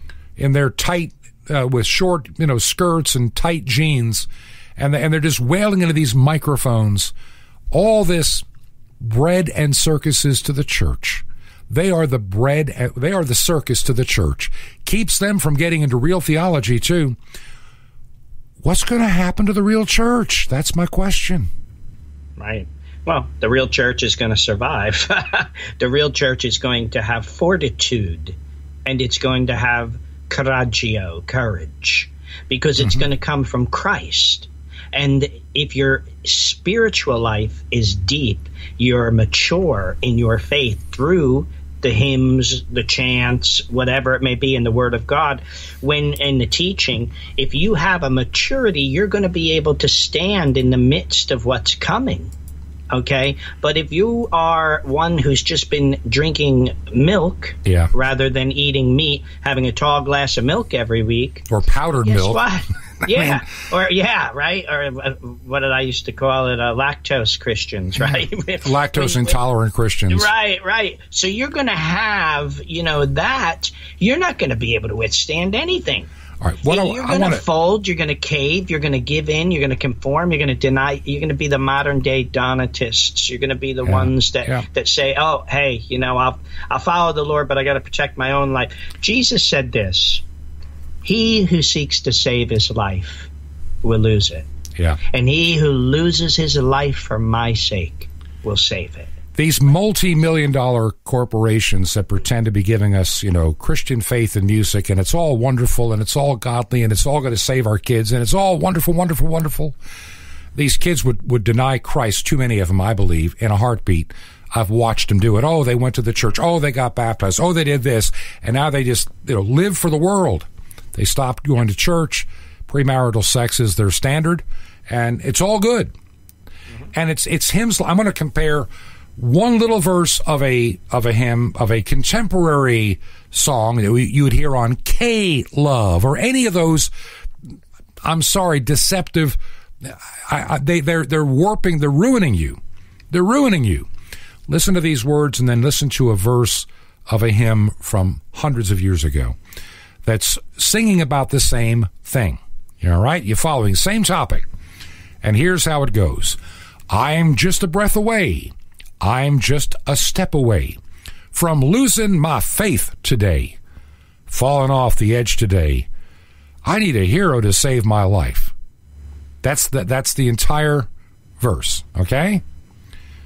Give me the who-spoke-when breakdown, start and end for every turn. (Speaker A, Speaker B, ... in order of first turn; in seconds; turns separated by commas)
Speaker A: 0.4-7.1, Speaker A: 7.7-8.4, Speaker A: 9.0-17.2, Speaker A: 18.6-21.5, Speaker B: 22.4-52.3, Speaker B: 52.9-61.5, Speaker A: 57.6-57.9, Speaker A: 61.5-62.4, Speaker B: 62.0-69.4, Speaker A: 63.0-63.4, Speaker A: 68.6-70.3, Speaker B: 70.1-76.1, Speaker A: 76.4-77.4, Speaker B: 76.7-90.2, Speaker A: 83.8-84.7, Speaker B: 91.0-93.3, Speaker B: 93.8-94.5, Speaker B: 95.1-99.1, Speaker A: 99.3-109.8, Speaker A: 110.5-125.9, Speaker A: 126.9-136.9, Speaker A: 138.0-142.6, Speaker A: 143.1-143.9, Speaker A: 144.5-149.4, Speaker A: 150.1-154.4, Speaker A: 155.2-156.4, Speaker A: 156.9-160.8, Speaker A: 161.3-163.6, Speaker A: 164.3-165.9, Speaker A: 166.6-168.5, Speaker A: 169.4-170.9, Speaker A: 171.4-172.4